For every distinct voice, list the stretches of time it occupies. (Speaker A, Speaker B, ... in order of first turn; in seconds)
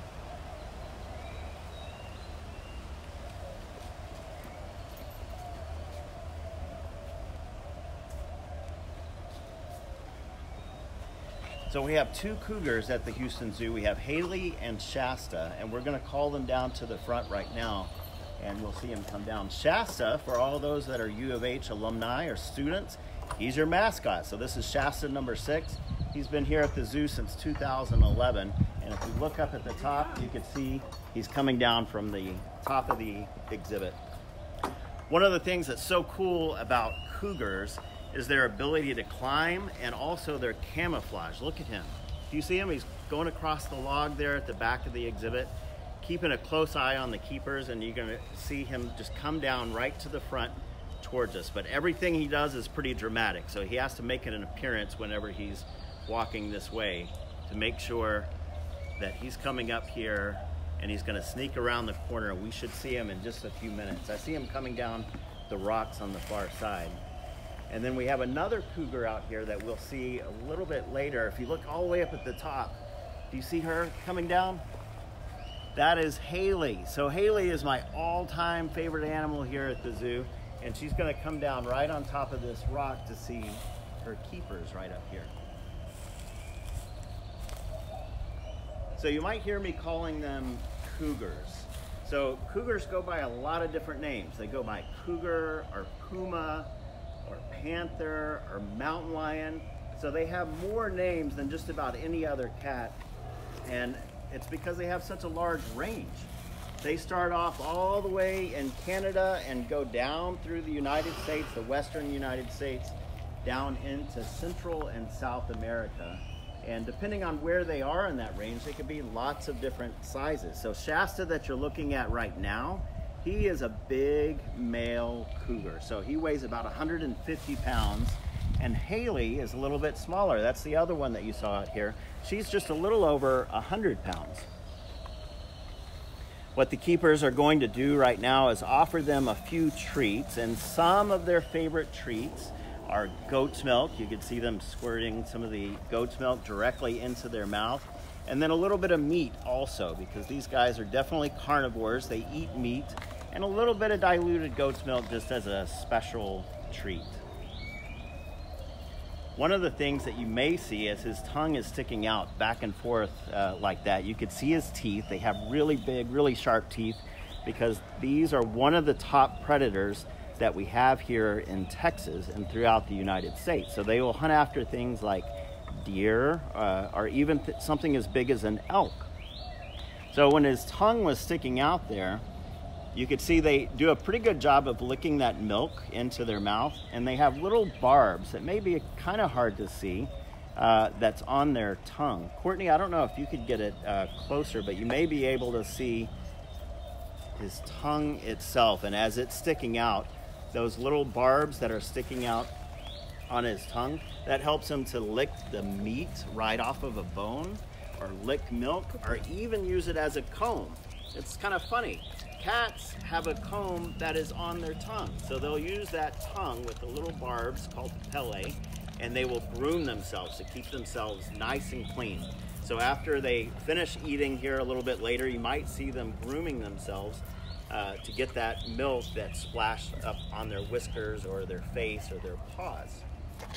Speaker A: 11.7-34.0, 35.1-58.3, 59.0-67.0, 67.7-72.8, 73.3-74.6, 75.8-85.3, 89.0-96.7, 97.2-103.0, 103.6-106.3, 106.8-134.5, 136.6-157.2, 159.4-179.1, 180.1-182.2, 182.9-196.1, 197.4-202.5, 203.3-233.1